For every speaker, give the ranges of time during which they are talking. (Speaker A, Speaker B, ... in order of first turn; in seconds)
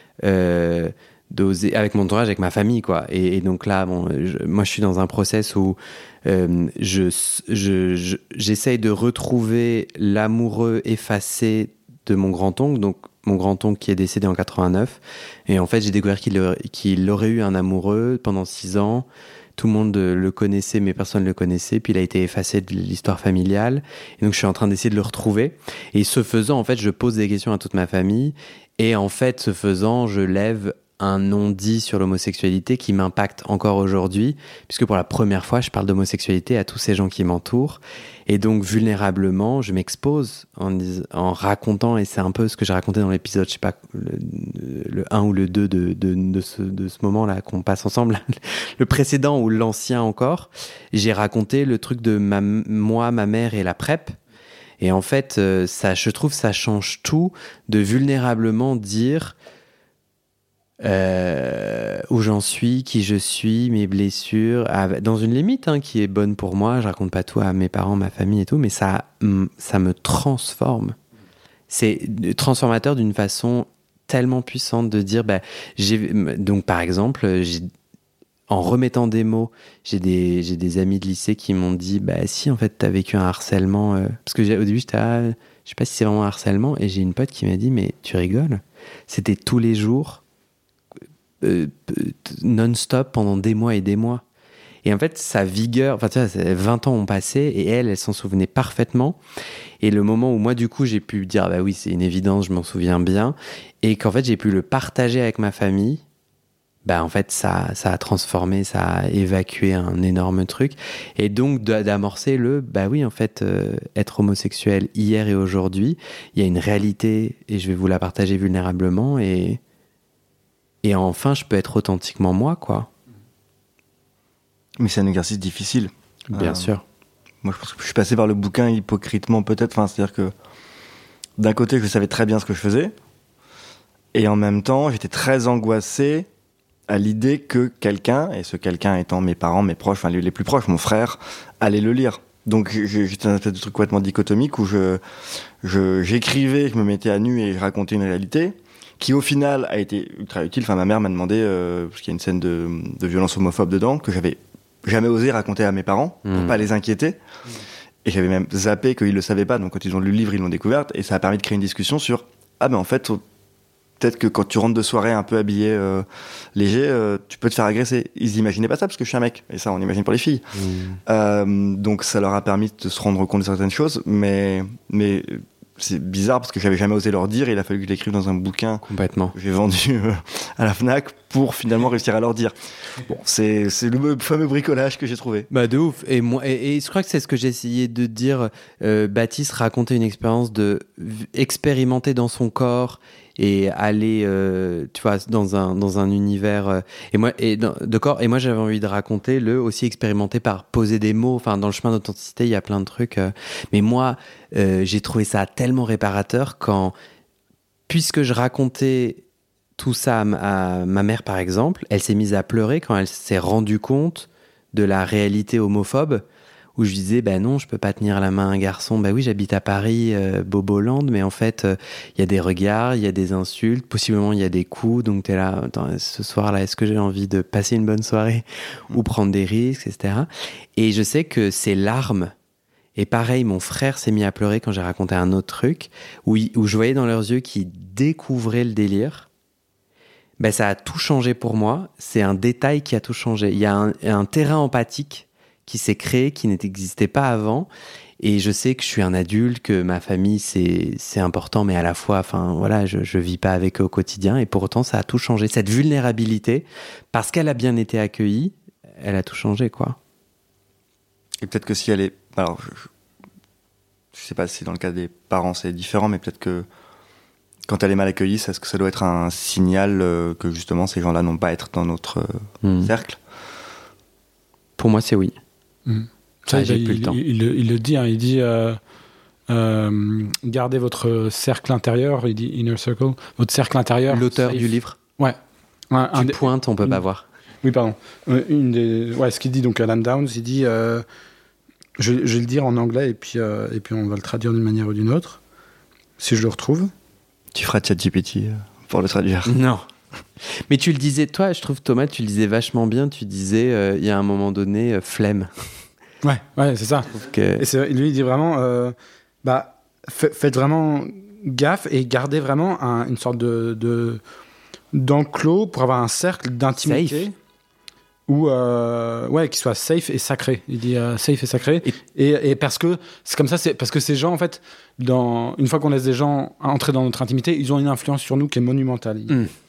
Speaker A: 0.2-54.2, 54.8-59.3, 60.8-71.0, 71.7-77.7, 78.5-90.2, 91.4-94.2, 94.8-99.2, 99.8-106.0, 106.8-119.6, 120.8-122.9, 126.3-126.8, 156.2-156.6, 170.6-171.0, 178.8-179.3, 185.5-206.9, 207.9-209.2, 209.8-216.2, 216.8-232.3, 232.9-239.3, 240.4-247.7, 248.2-260.0, 272.6-272.9, 274.8-275.4, 276.5-277.2, 284.1-285.0, 286.1-287.3, 299.4-299.9, 300.7-305.5, 307.1-307.7, 316.8-317.3
Speaker B: 124.8-126.7, 127.4-130.3, 131.4-132.9, 134.1-136.3, 136.9-145.0, 145.6-157.2, 158.0-163.2, 164.0-170.5, 171.1-185.5, 261.4-262.9, 264.1-266.7, 267.7-273.2, 297.5-299.6
Speaker C: 275.9-278.8, 279.5-285.4, 285.9-287.0, 287.6-291.1, 292.0-295.4, 296.2-296.9, 306.2-314.2, 314.9-317.3, 318.3-329.3